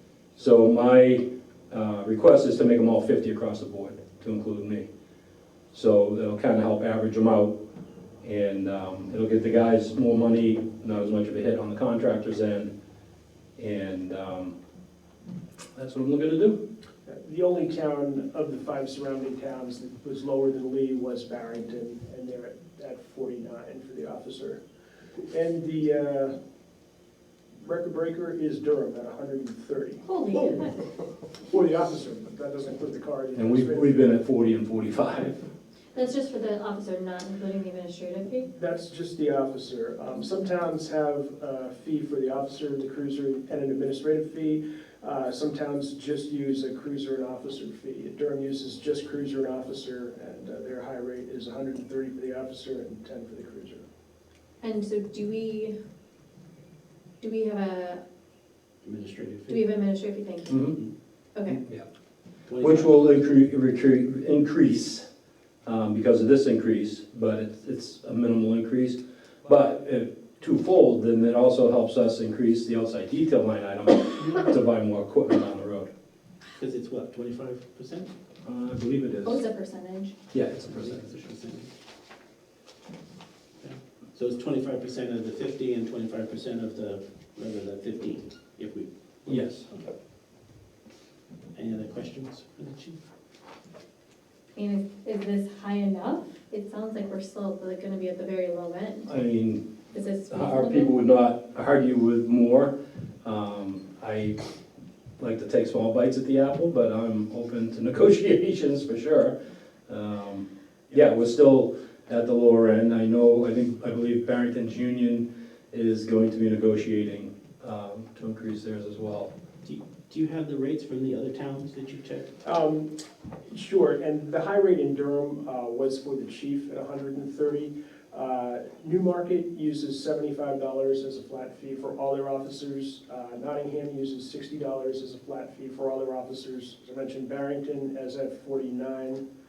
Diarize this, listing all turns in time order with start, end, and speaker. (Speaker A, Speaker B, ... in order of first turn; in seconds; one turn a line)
Speaker A: 0.3-4.9
Speaker A: 5.7-7.6
Speaker A: 8.2-12.7
Speaker A: 13.6-14.5
Speaker A: 15.8-16.6
Speaker B: 17.1-24.6
Speaker B: 25.3-26.3
Speaker B: 27.6-30.0
Speaker C: 30.1-30.8
Speaker B: 31.5-34.1
Speaker A: 33.4-35.4
Speaker C: 35.9-38.5
Speaker B: 38.5-53.8
Speaker C: 54.6-55.8
Speaker C: 57.2-58.0
Speaker D: 58.8-59.7
Speaker C: 59.5-60.7
Speaker A: 60.5-60.8
Speaker C: 61.3-61.6
Speaker D: 62.5-63.1
Speaker A: 62.6-65.1
Speaker A: 65.6-75.9
Speaker D: 76.6-78.1
Speaker A: 78.4-79.4
Speaker C: 79.2-80.1
Speaker A: 80.3-81.1
Speaker D: 80.7-81.7
Speaker D: 83.6-89.8
Speaker A: 89.2-89.7
Speaker D: 91.5-93.0
Speaker C: 94.5-99.1
Speaker A: 99.1-99.7
Speaker C: 99.9-100.9
Speaker A: 100.3-104.4
Speaker A: 105.2-109.3
Speaker A: 109.9-119.3
Speaker D: 119.6-122.3
Speaker B: 122.4-122.9
Speaker B: 123.5-139.2